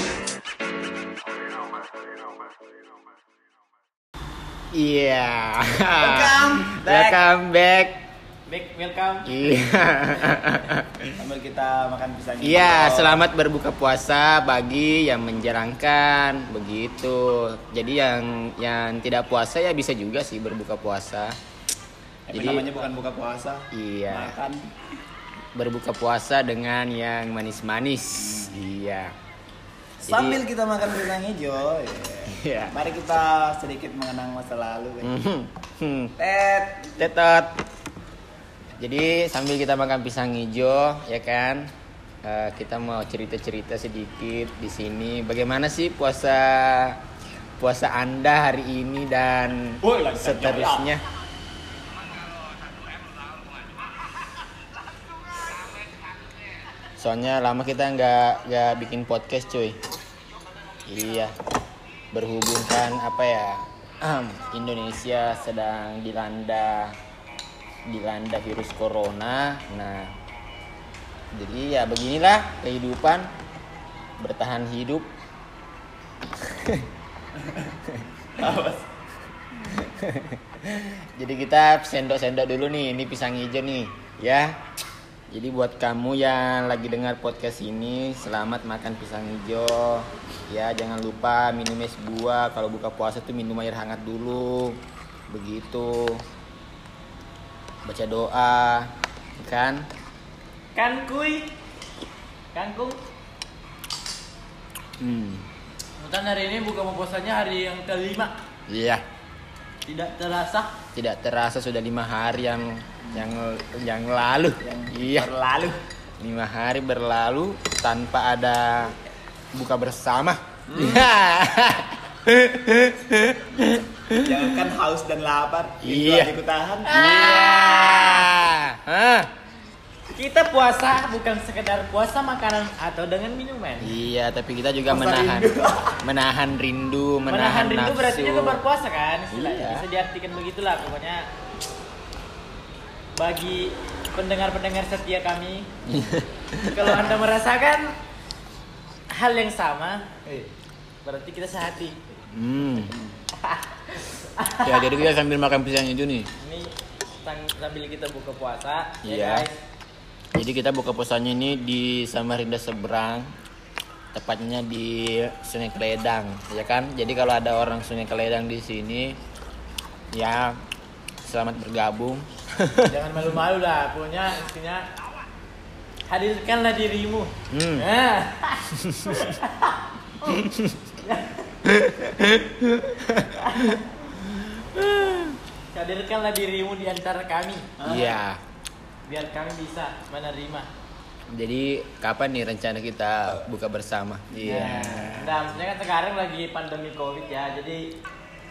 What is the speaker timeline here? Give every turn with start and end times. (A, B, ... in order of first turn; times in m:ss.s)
0:04.7-0:08.0 A
0:06.0-0:07.2 B
0:08.5-0:09.4 C
0:09.3-0:11.1 A
0:11.1-0:13.2 B
0:12.4-0:21.3 A
0:22.3-0:24.6 B
0:22.3-0:22.8 A
0:23.7-0:24.4 A
0:25.6-0:29.1 A
0:28.2-0:28.6 B
0:30.0-0:35.1 B
0:30.0-0:30.4 A
0:32.3-0:32.7 A
0:35.0-0:36.1 A
0:36.2-0:37.0 B
0:37.0-0:37.5 A
0:38.8-0:41.7 A
0:42.2-0:47.0 A
0:47.6-0:51.0 A
0:49.8-0:50.8 B
0:57.0-0:59.8 A
1:00.9-1:01.3 A
1:02.1-1:07.0 A
1:07.9-1:10.2 A
1:11.3-1:13.3 A
1:14.2-1:15.1 A
1:16.4-1:16.9 A
1:17.4-1:17.8 B
1:18.4-1:18.9 B
1:19.7-1:24.6 A
1:25.3-1:34.8 A
1:35.3-1:36.2 A
1:37.9-1:39.9 A
1:40.8-1:41.5 C
1:42.5-1:43.0 C
1:45.0-1:45.5 A
1:46.0-1:48.3 C
1:48.7-1:49.0 A
1:49.8-1:50.8 C
1:51.0-1:55.3 A
1:54.6-1:55.8 B
1:56.2-1:59.0 A
1:59.6-2:04.6 A
2:00.7-2:01.1 B
2:04.2-2:07.0 B
2:05.8-2:06.3 A
2:06.9-2:09.3 A
2:06.9-2:08.3 C
2:10.1-2:14.0 C
2:13.8-2:15.5 A
2:14.9-2:16.0 B
2:16.0-2:18.6 A
2:17.3-2:21.2 C
2:19.3-2:19.9 A
2:23.2-2:25.7 C
2:25.9-2:27.3 A
2:26.7-2:28.0 C
2:29.1-2:30.1 C
2:31.0-2:32.0 C
2:32.3-2:32.9 A
2:32.9-2:33.2 B
2:33.4-2:35.1 C
2:34.6-2:36.3 A
2:36.4-2:39.6 C
2:39.0-2:39.5 A
2:40.4-2:43.3 A
2:44.1-2:49.2 A
2:50.1-2:50.6 A
2:51.2-2:53.0 A
2:52.9-2:54.9 C
2:56.1-3:00.4 C
2:57.5-2:57.9 A
2:58.7-2:59.3 A
3:00.3-3:00.8 A
3:01.0-3:01.5 C
3:01.6-3:05.4 A
3:03.5-3:03.8 C
3:05.7-3:07.7 C
3:07.8-3:08.2 B
3:07.8-3:08.4 A
3:09.1-3:10.7 C
3:11.3-3:15.6 A
3:14.4-3:15.1 B
3:14.5-3:17.8 C